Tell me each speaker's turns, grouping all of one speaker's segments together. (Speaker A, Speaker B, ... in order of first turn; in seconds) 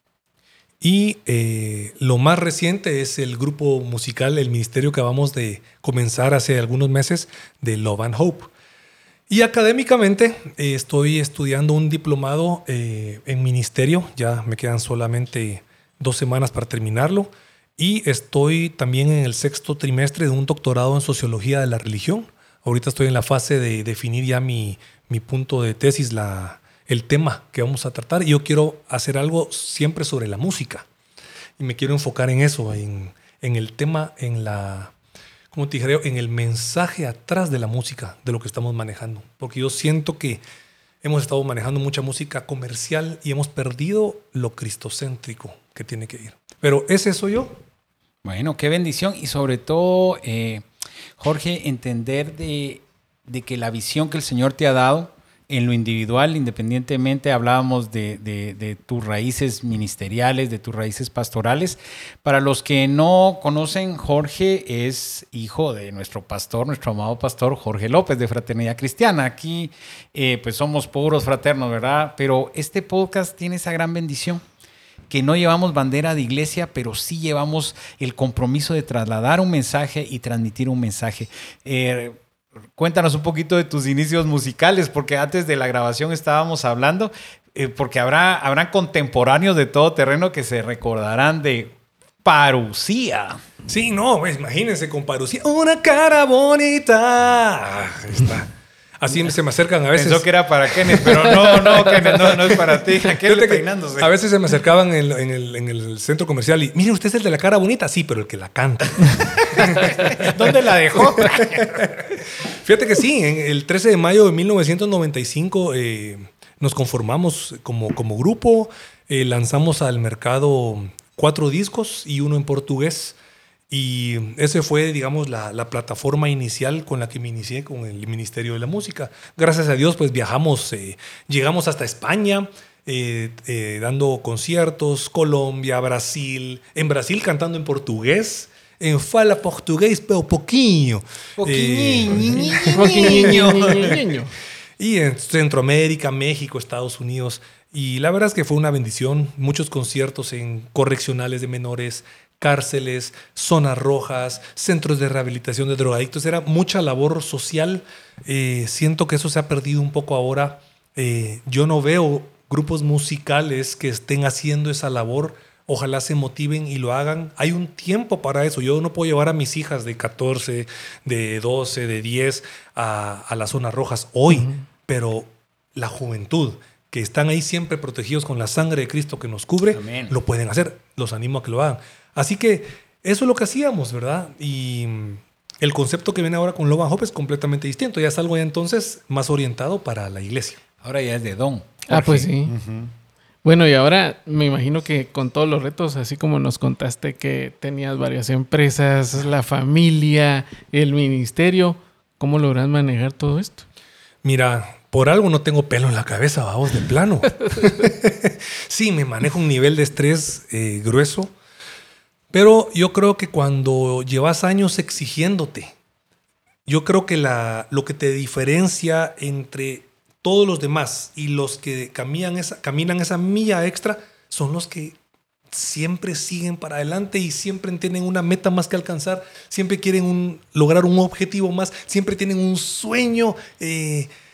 Speaker A: 0.8-8.5, 9.3-30.9, 31.6-34.9, 35.5-40.4, 41.0-47.6, 93.7-123.2, 123.7-144.1, 144.8-190.6, 204.2-211.3, 212.3-215.7, 216.7-225.0, 225.5-234.1
Speaker B: 48.2-50.7, 51.2-74.4, 75.1-82.2, 82.8-93.4, 99.9-104.1, 109.5-111.9, 141.4-144.0, 179.7-180.2, 190.8-192.9
Speaker C: 142.5-144.3, 174.3-174.6, 191.9-192.5, 193.4-203.7